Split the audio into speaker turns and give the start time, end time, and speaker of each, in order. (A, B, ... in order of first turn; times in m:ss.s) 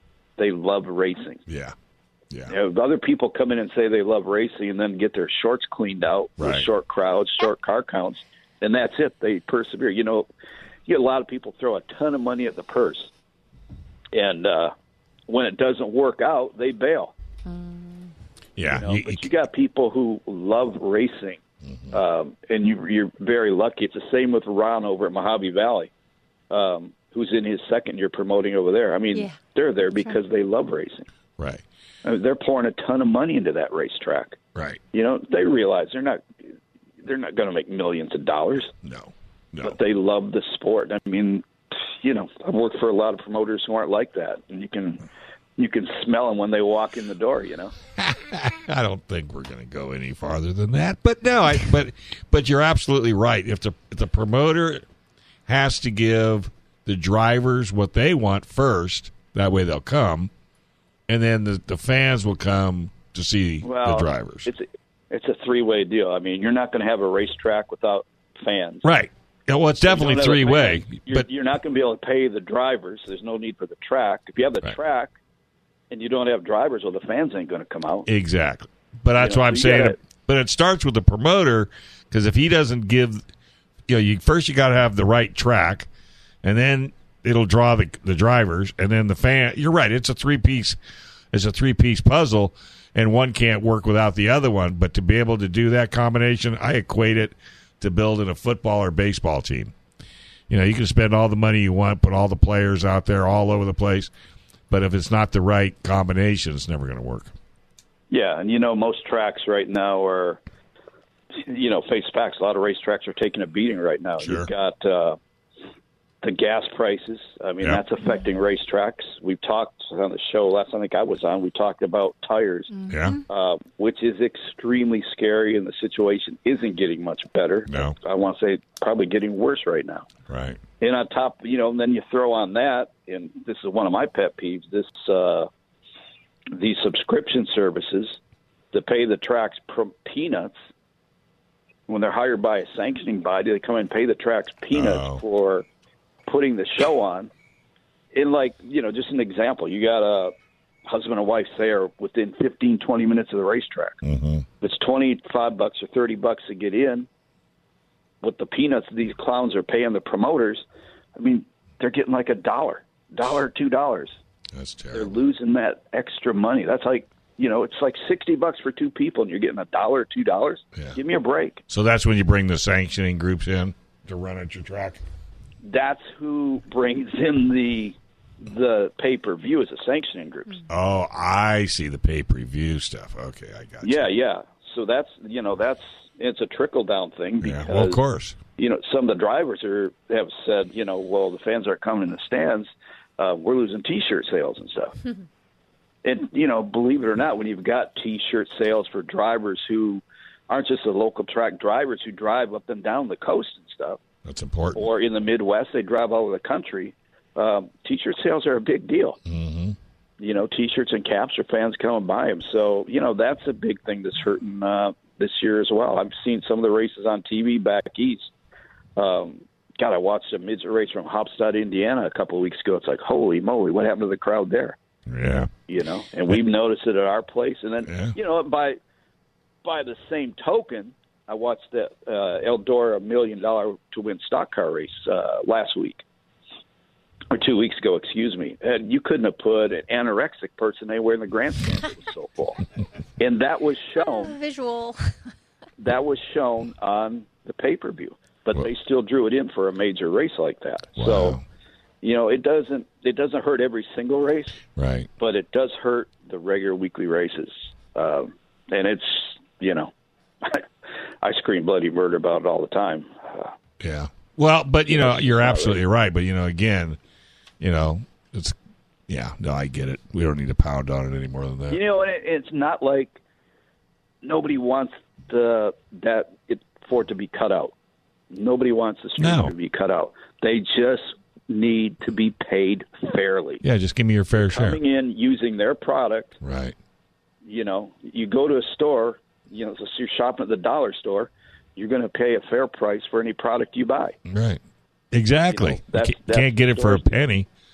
0:00.4-0:01.4 A
0:01.5-0:01.7 B
0:02.5-0:10.3 A
0:06.4-0:06.7 B
0:10.9-0:13.1 A
0:14.1-0:14.7 A
0:15.3-0:17.1 A
0:17.5-0:18.0 C
0:18.6-0:19.3 B
0:18.7-0:21.4 A
0:21.7-0:21.9 B
0:21.9-0:25.9 A
0:26.5-0:31.1 A
0:29.1-0:29.4 C
0:31.4-0:31.6 B
0:32.0-0:34.4 A
0:34.9-0:36.2 A
0:37.0-0:38.7 A
0:38.8-0:39.8 B
0:39.6-0:41.4 A
0:42.0-0:45.0 A
0:45.6-0:47.7 A
0:48.0-0:54.8 B
0:55.5-1:00.3 B
1:01.1-1:04.5 B
1:03.6-1:08.9 A
1:08.8-1:11.3 B
1:09.8-1:15.1 A
1:15.9-1:18.1 A
1:18.1-1:23.2 B
1:19.2-1:20.0 A
1:23.9-1:25.9 B
1:26.4-1:30.8 B
1:31.3-1:39.7 B
1:40.5-1:44.1 B
1:44.7-1:47.3 B
1:48.1-1:50.4 A
1:51.4-1:55.2 A
1:54.2-1:54.5 B
1:56.2-2:02.8 A
2:02.7-2:03.2 C
2:02.9-2:03.2 B
2:03.3-2:10.1 A
2:07.7-2:08.0 B
2:10.3-2:10.6 B
2:10.8-2:15.5 A
2:16.5-2:18.2 A
2:18.7-2:20.6 A
2:21.9-2:25.6 A
2:24.7-2:25.2 B
2:26.3-2:27.3 A
2:28.1-2:30.3 A
2:30.9-2:34.0 A
2:34.0-2:34.5 B
2:34.6-2:37.1 A
2:38.2-2:40.6 A
2:41.2-2:44.2 A
2:44.6-2:45.1 B
2:44.9-2:51.6 A
2:51.7-2:55.0 B
2:55.6-3:00.6 A
3:00.7-3:04.1 B
3:03.8-3:08.0 A
3:07.4-3:08.4 B
3:08.6-3:15.0 A
3:16.0-3:24.0 A
3:24.2-3:24.9 B
3:24.7-3:29.2 A
3:29.3-3:29.8 B
3:30.2-3:38.3 A
3:39.0-3:44.8 A
3:45.1-3:45.5 B
3:45.7-3:48.8 A
3:47.9-3:48.1 B
3:49.6-3:56.0 A
3:57.3-4:02.6 A
4:03.2-4:04.4 A
4:04.0-4:05.1 C
4:05.8-4:11.4 A
4:11.0-4:11.4 B
4:12.0-4:14.6 A
4:14.8-4:15.1 B
4:15.2-4:20.7 A
4:21.2-4:23.5 A
4:23.8-4:27.0 B
4:24.9-4:25.8 A
4:27.6-4:28.6 B
4:29.1-4:31.8 B
4:31.7-4:33.2 A
4:34.2-4:37.7 A
4:38.3-4:43.6 A
4:39.2-4:39.5 B
4:43.6-4:44.8 B
4:44.4-4:46.4 A
4:46.4-4:46.7 B
4:47.4-4:54.2 A
4:54.3-4:54.6 B
4:55.1-4:57.5 B
4:55.5-4:57.2 A